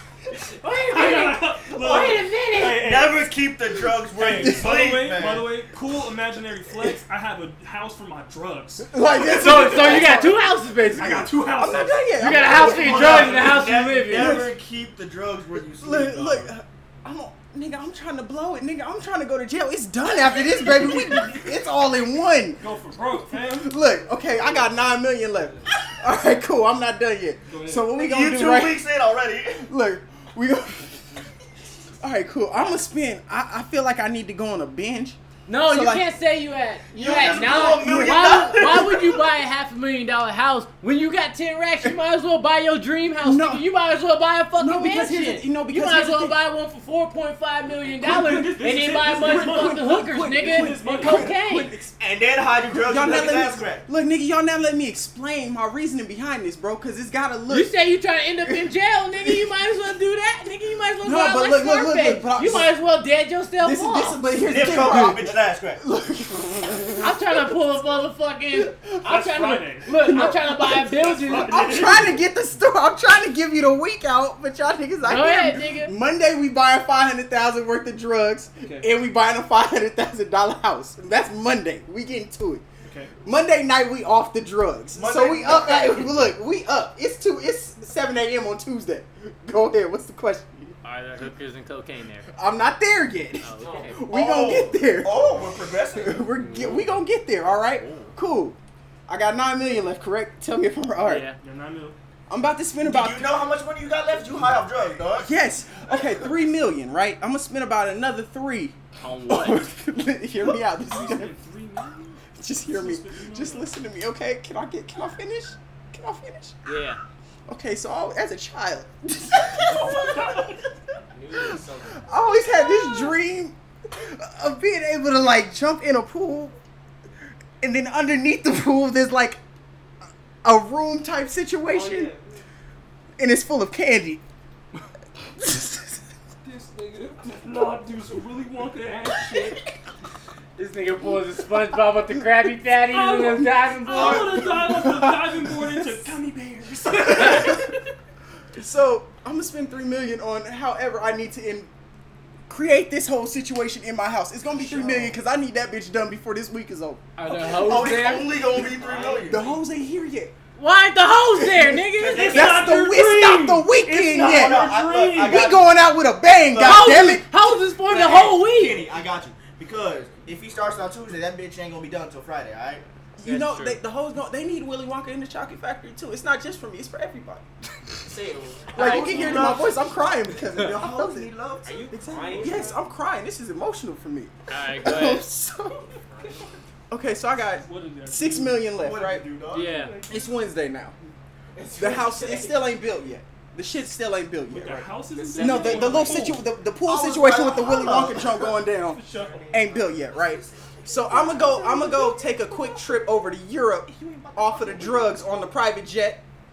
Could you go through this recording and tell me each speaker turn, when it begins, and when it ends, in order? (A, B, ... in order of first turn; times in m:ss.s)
0:00.6-0:02.9 A
0:00.6-0:03.3 B
0:01.8-0:05.5 C
0:04.1-0:08.9 B
0:04.3-0:04.8 D
0:08.9-0:10.4 D
0:09.2-0:11.3 A
0:09.7-0:10.0 B
0:11.0-0:13.7 B
0:11.0-0:13.5 D
0:12.2-0:14.5 A
0:12.4-0:16.5 C
0:14.1-0:14.5 D
0:15.8-0:22.6 D
0:22.6-0:23.7 B
0:23.5-0:28.8 D
0:27.5-0:27.9 B
0:27.9-0:29.7 C
0:29.6-0:31.0 D
0:32.0-0:36.1 D
0:35.5-0:51.7 A
0:36.9-0:39.2 C
0:37.3-0:38.0 D
0:43.2-0:43.6 D
0:44.6-0:46.4 D
0:48.0-0:49.8 B
0:49.1-0:51.9 D
0:50.4-0:51.3 B
0:52.0-0:53.8 C
0:52.6-0:57.7 D
0:57.5-1:04.2 A
1:01.0-1:02.7 D
1:03.6-1:07.4 D
1:04.4-1:05.8 C
1:07.0-1:11.6 A
1:08.6-1:09.0 D
1:09.0-1:09.9 B
1:10.0-1:22.6 D
1:11.0-1:12.2 B
1:15.0-1:15.9 A
1:18.6-1:18.9 B
1:22.9-1:23.1 B
1:23.2-1:30.7 D
1:24.9-1:26.3 C
1:30.8-1:32.3 A
1:32.3-1:35.3 D
1:33.4-1:34.0 A
1:33.6-1:34.0 E
1:34.1-1:36.3 C
1:35.9-1:41.3 D
1:36.5-1:36.8 A
1:37.4-1:38.1 C
1:41.0-1:41.4 A
1:41.4-1:42.0 B
1:42.3-1:43.4 D
1:42.8-1:45.4 C
1:45.2-1:48.8 D
1:49.0-1:49.7 A
1:49.3-1:51.3 D
1:50.8-1:53.7 B
1:52.4-1:56.6 D
1:56.6-1:57.0 A
1:57.5-2:00.4 D
1:59.6-2:00.6 B
2:01.1-2:03.1 A
2:01.4-2:06.6 D
2:07.6-2:09.4 D
2:10.4-2:12.1 D
2:11.7-2:12.4 E
2:13.2-2:14.2 D
2:15.4-2:15.9 D
2:16.4-2:19.6 B
2:20.6-2:24.4 A
2:22.8-2:27.8 B
2:23.9-2:26.1 D
2:27.0-2:27.6 D
2:28.5-2:31.7 D
2:32.5-2:37.1 D
2:34.5-2:35.1 C
2:37.2-2:38.5 A
2:37.3-2:39.5 C
2:38.8-2:39.5 E
2:39.2-2:40.3 D
2:40.6-2:42.4 A
2:41.4-2:44.7 D
2:41.9-2:42.8 C
2:42.1-2:45.5 B
2:44.1-2:45.8 C
2:45.2-2:47.3 D
2:46.4-2:47.2 C
2:46.6-2:48.8 A
2:47.9-2:52.8 C
2:53.2-2:57.4 D
2:53.2-2:53.8 A
2:58.0-2:59.5 E
2:58.7-3:01.3 D
2:58.8-2:59.8 C
2:58.8-2:59.6 A
3:00.5-3:02.6 C
3:01.6-3:02.9 E
3:01.9-3:05.9 D
3:04.5-3:05.3 A
3:05.9-3:06.6 E
3:06.9-3:09.2 D
3:07.6-3:08.6 B
3:08.7-3:10.3 C
3:09.5-3:09.9 A
3:10.1-3:11.0 D
3:11.6-3:12.6 E
3:11.8-3:26.2 D
3:11.8-3:12.1 C
3:14.5-3:23.1 C
3:14.6-3:16.4 B
3:19.0-3:19.4 B
3:23.9-3:25.5 C